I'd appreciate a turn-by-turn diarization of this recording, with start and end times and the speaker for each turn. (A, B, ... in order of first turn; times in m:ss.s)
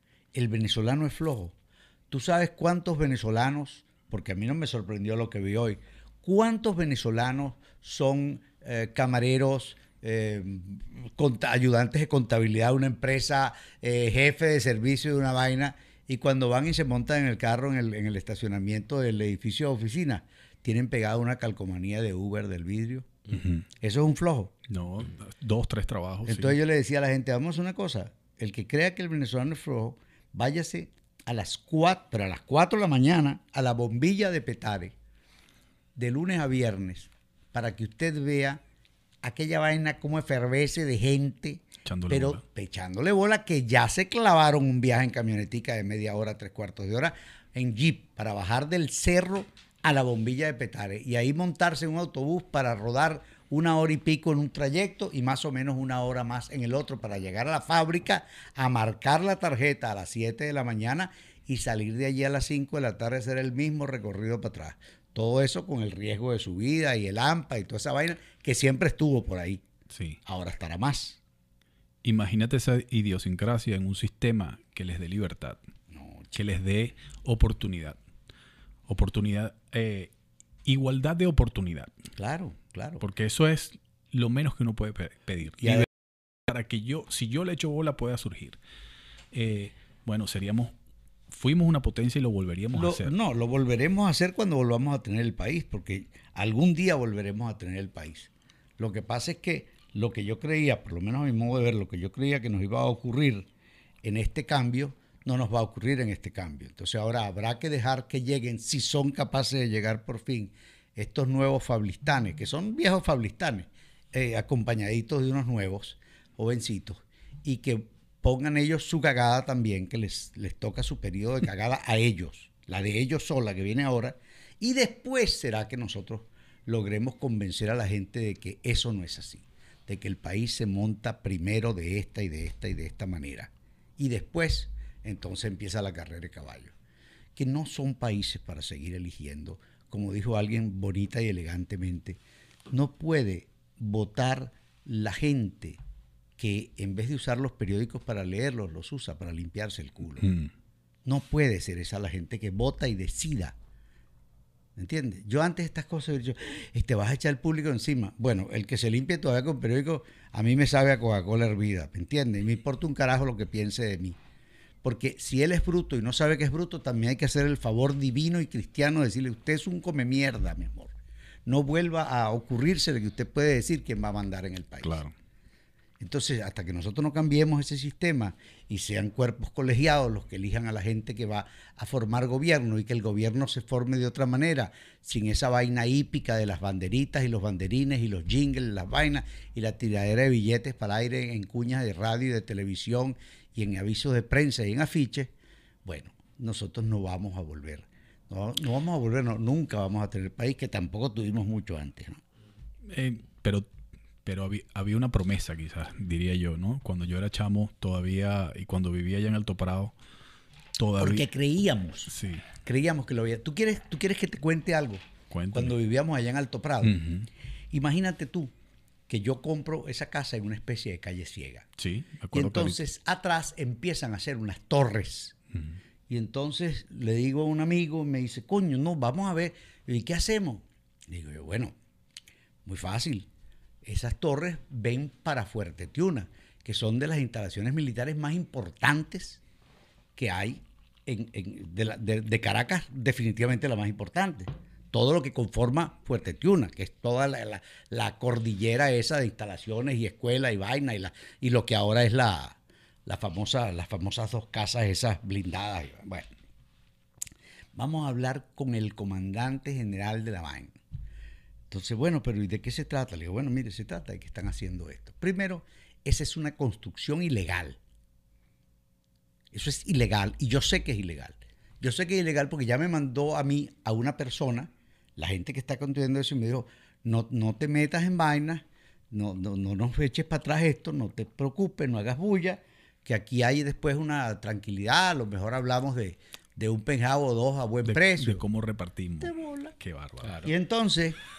0:00.3-0:01.6 A
0:02.1-0:23.2 A
0:23.3-0:23.7 B
0:23.8-0:24.6 A
0:24.7-0:26.6 B
0:26.2-0:35.0 A
0:36.0-0:38.6 A
0:39.2-1:09.6 A
0:41.9-0:42.4 B
1:09.9-1:10.2 B
1:10.3-1:11.2 A
1:12.0-1:15.6 B
1:15.9-1:16.4 A
1:16.3-1:18.0 B
1:18.9-1:20.1 B
1:20.6-1:21.9 B
1:22.2-1:23.0 A
1:23.0-1:25.9 B
1:25.6-1:25.9 A
1:26.5-1:28.6 B
1:29.3-1:30.7 B
1:31.3-1:33.2 B
1:32.7-1:43.5 A
1:44.0-2:16.7 A
2:17.4-2:25.8 A
2:26.4-2:30.3 A
2:30.2-2:30.5 B
2:31.0-2:33.6 A
2:34.8-2:44.2 A
2:44.8-2:51.0 A
2:51.5-2:55.0 A
2:54.8-2:55.1 B
2:56.0-3:15.3 A
3:15.8-3:22.2 A
3:22.9-3:23.7 B
3:24.2-3:30.0 B
3:30.8-3:31.3 B
3:31.0-3:37.0 A
3:32.1-3:32.5 B
3:35.3-3:35.8 B
3:36.8-3:37.3 B
3:37.7-3:38.5 A
3:39.1-3:41.7 A
3:41.8-3:42.8 B
3:42.3-3:45.4 A
3:45.5-3:45.8 B
3:46.1-3:51.8 A
3:52.6-3:53.3 A
3:53.8-3:59.4 A
4:00.2-4:16.3 A
4:17.7-4:20.8 A
4:21.7-4:27.8 A
4:29.5-4:48.4 A
4:47.9-4:50.5 B
4:49.2-4:49.8 A
4:50.4-4:51.2 A